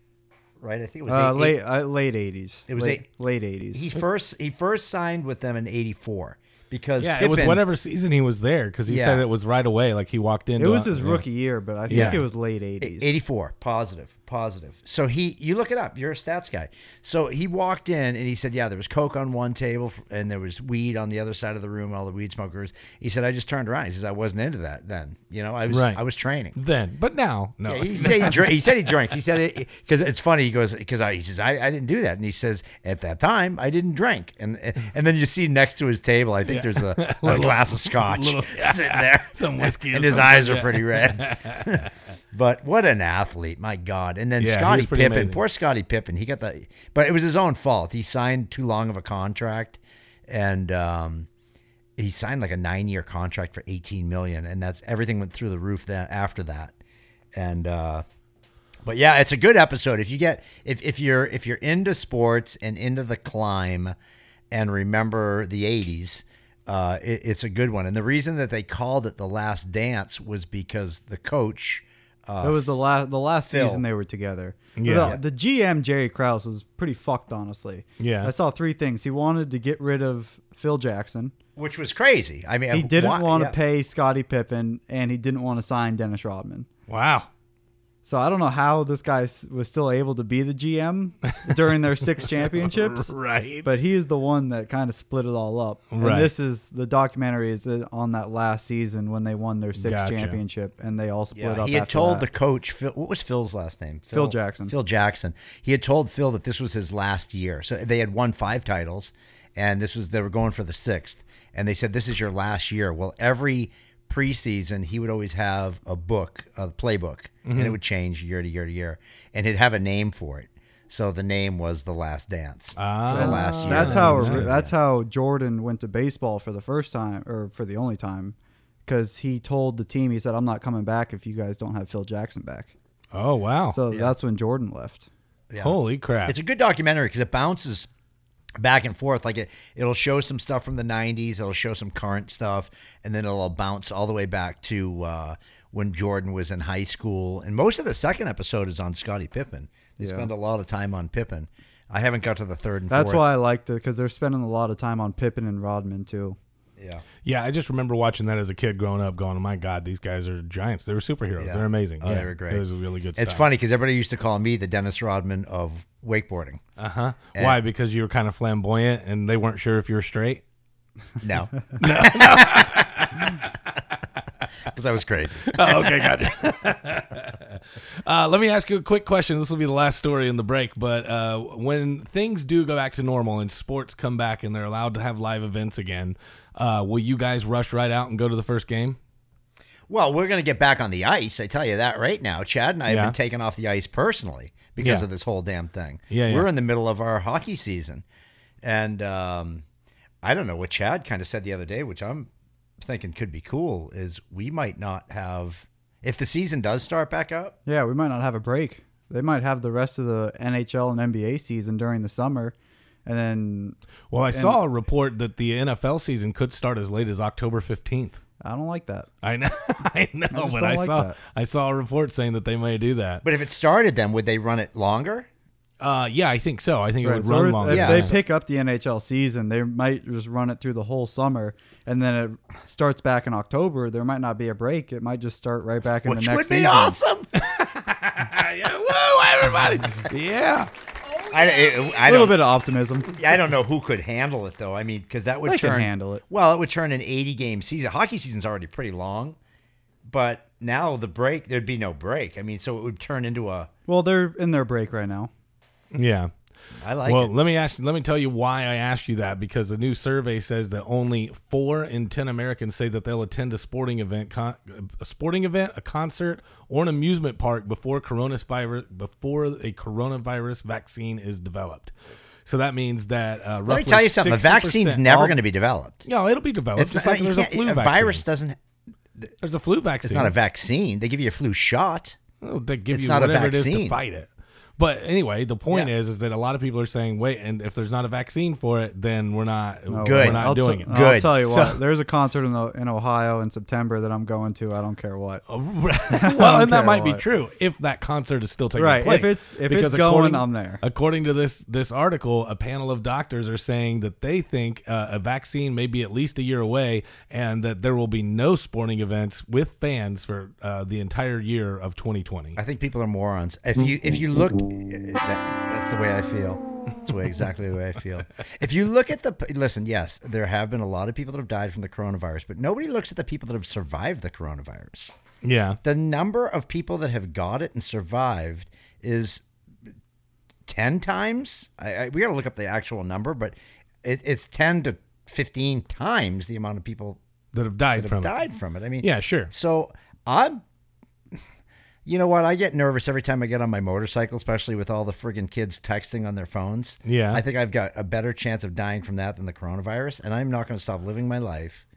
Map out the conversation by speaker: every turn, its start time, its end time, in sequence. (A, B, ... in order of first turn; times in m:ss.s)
0:00.6-0:01.6 A
0:01.1-0:03.9 B
0:02.7-0:03.0 A
0:03.7-0:07.6 A
0:07.0-0:11.2 C
0:08.9-0:09.2 A
0:10.6-0:13.1 B
0:11.9-0:12.2 C
0:11.9-0:12.2 A
0:12.8-0:26.6 A
0:25.7-0:26.0 C
0:26.5-0:28.5 C
0:27.7-0:51.3 A
0:36.4-0:41.9 C
0:44.4-0:45.4 C
0:52.0-0:56.7 A
0:57.3-0:58.0 A
0:58.8-1:03.9 A
1:04.5-1:12.7 A
1:12.4-1:21.3 B
1:13.5-1:13.8 A
1:14.8-1:15.2 C
1:14.9-1:15.2 A
1:18.0-1:18.3 C
1:21.6-1:23.6 A
1:22.7-1:26.7 B
1:26.9-1:27.3 C
1:28.0-1:33.1 B
1:31.3-1:33.7 C
1:33.6-1:42.2 B
1:35.9-1:36.3 C
1:39.8-1:40.4 C
1:41.3-2:04.7 A
1:44.1-1:44.7 B
1:57.4-1:57.8 C
2:02.8-2:04.5 C
2:03.1-2:12.7 B
2:13.1-2:13.8 C
2:13.7-2:15.1 B
2:15.5-2:17.9 A
2:15.6-2:16.4 C
2:18.6-2:33.2 A
2:30.0-2:30.3 B
2:32.9-2:36.4 B
2:36.8-2:37.0 A
2:37.2-2:43.4 C
2:41.4-2:42.6 A
2:43.2-2:46.6 A
2:46.8-2:50.4 C
2:51.2-2:52.9 A
2:51.8-2:53.6 C
2:54.6-2:55.9 A
2:55.4-3:09.0 C
3:09.9-3:18.0 A
3:12.9-3:13.1 C
3:14.8-3:15.0 C
3:16.1-3:16.5 C
3:18.6-3:19.6 A
3:20.2-3:27.6 A
3:27.6-3:32.5 B
3:33.0-3:33.8 B
3:34.1-3:38.2 C
3:34.3-3:34.6 B
3:38.4-3:39.1 B
3:39.2-3:43.2 C
3:40.3-3:41.2 B
3:43.2-3:45.3 A
3:45.8-3:48.1 C
3:47.0-3:57.0 B
3:47.7-3:48.1 A
3:56.0-3:57.3 A
3:57.3-4:00.7 C
4:01.2-4:02.5 A
4:02.0-4:03.1 B
4:03.1-4:09.4 A
4:05.4-4:06.2 B
4:10.0-4:13.7 A
4:13.9-4:15.3 B
4:15.9-4:16.3 C
4:16.8-4:17.3 A
4:17.0-4:31.9 C
4:32.4-4:35.4 C
4:33.6-4:36.0 A
4:36.0-4:38.2 C
4:36.8-4:38.6 A
4:39.4-4:40.3 C
4:40.0-4:42.2 A
4:42.4-4:52.4 C
4:42.9-4:44.0 A
4:49.9-4:55.4 B
4:50.0-4:51.5 A
4:55.5-5:12.6 C
4:56.1-4:57.2 B
4:58.8-5:00.8 B
5:12.6-5:25.2 A
5:25.4-5:25.8 C
5:25.8-5:29.4 A
5:30.6-5:37.2 A
5:37.5-5:38.4 C
5:37.9-5:40.6 A
5:39.0-5:39.5 C
5:42.0-5:51.8 A
5:47.0-5:47.4 C